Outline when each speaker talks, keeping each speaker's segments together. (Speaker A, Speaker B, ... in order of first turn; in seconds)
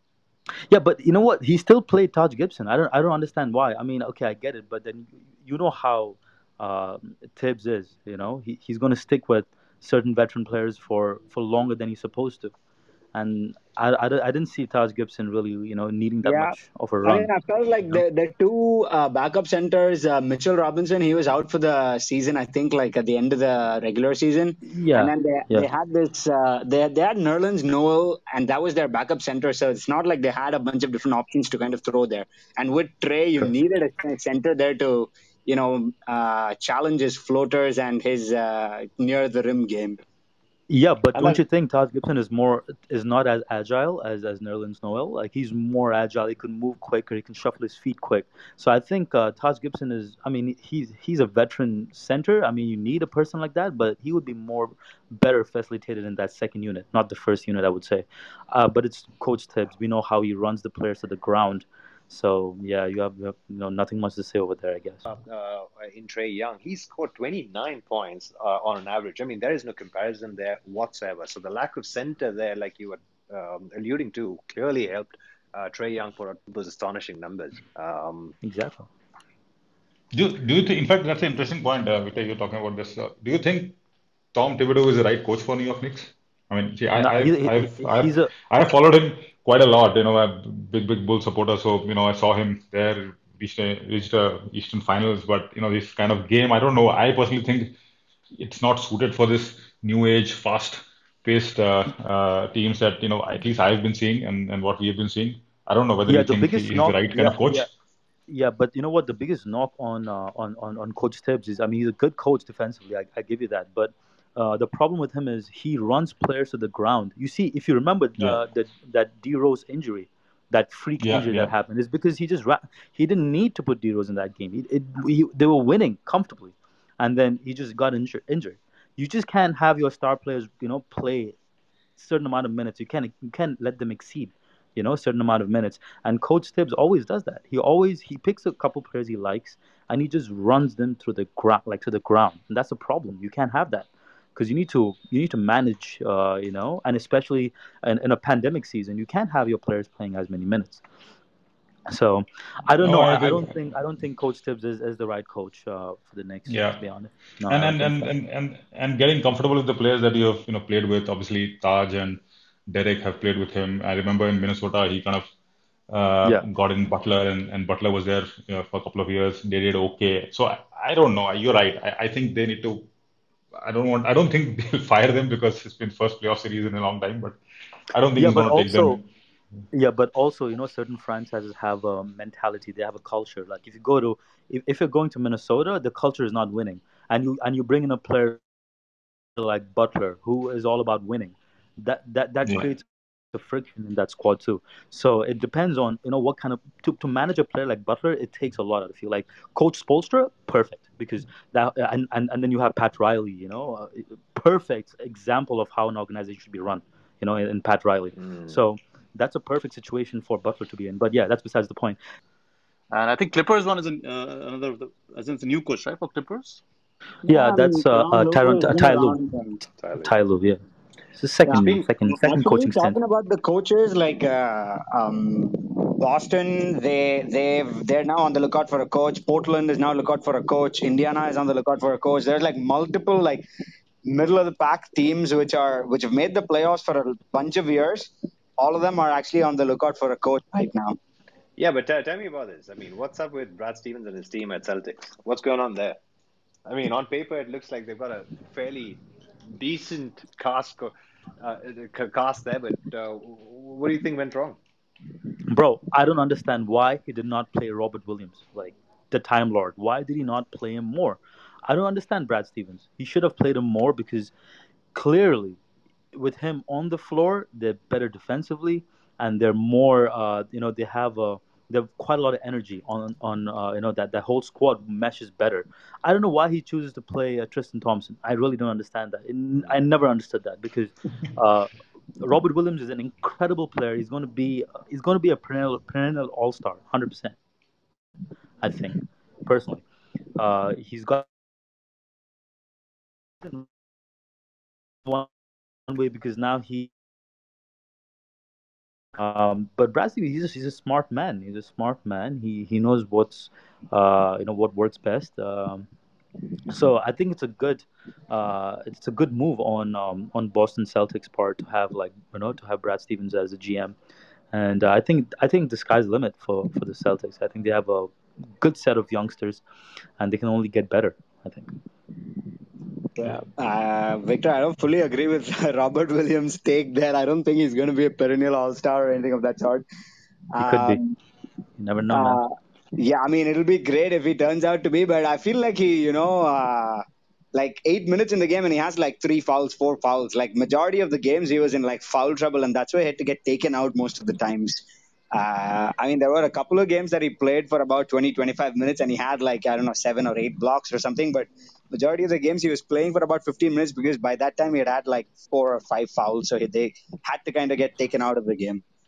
Speaker A: 0.7-12.5, 13.1-17.3, 24.7-25.7, 40.7-65.1, 78.4-78.9, 86.9-88.3, 106.1-107.7, 108.3-131.3, 132.0-150.8, 151.9-158.1, 178.2-179.0, 179.7-188.4, 189.4-212.0, 217.3-219.2, 220.0-220.6, 221.2-223.0, 255.5-264.3, 264.9-265.6, 266.1-287.4, 288.6-289.8, 290.4-291.3, 293.4-293.7, 295.0-295.3, 295.9-296.9, 299.1-305.9, 306.7-314.0, 314.5-319.6, 320.2-321.8, 330.6-331.0, 331.8-332.4
Speaker B: 16.2-40.0, 217.2-219.6, 221.4-233.4, 234.1-241.0, 323.2-329.8, 330.5-331.1, 332.1-358.8
Speaker C: 41.1-41.4, 65.1-78.4, 208.2-208.6, 219.8-220.1, 221.6-221.9, 241.6-246.0, 246.7-249.0, 249.5-254.6
Speaker D: 80.1-83.8, 84.3-97.8, 98.3-107.7, 121.0-121.5, 152.8-153.6, 156.5-156.8, 157.5-165.3, 165.9-172.9, 173.5-177.4, 177.9-179.1, 192.4-192.7
Speaker E: 212.9-216.6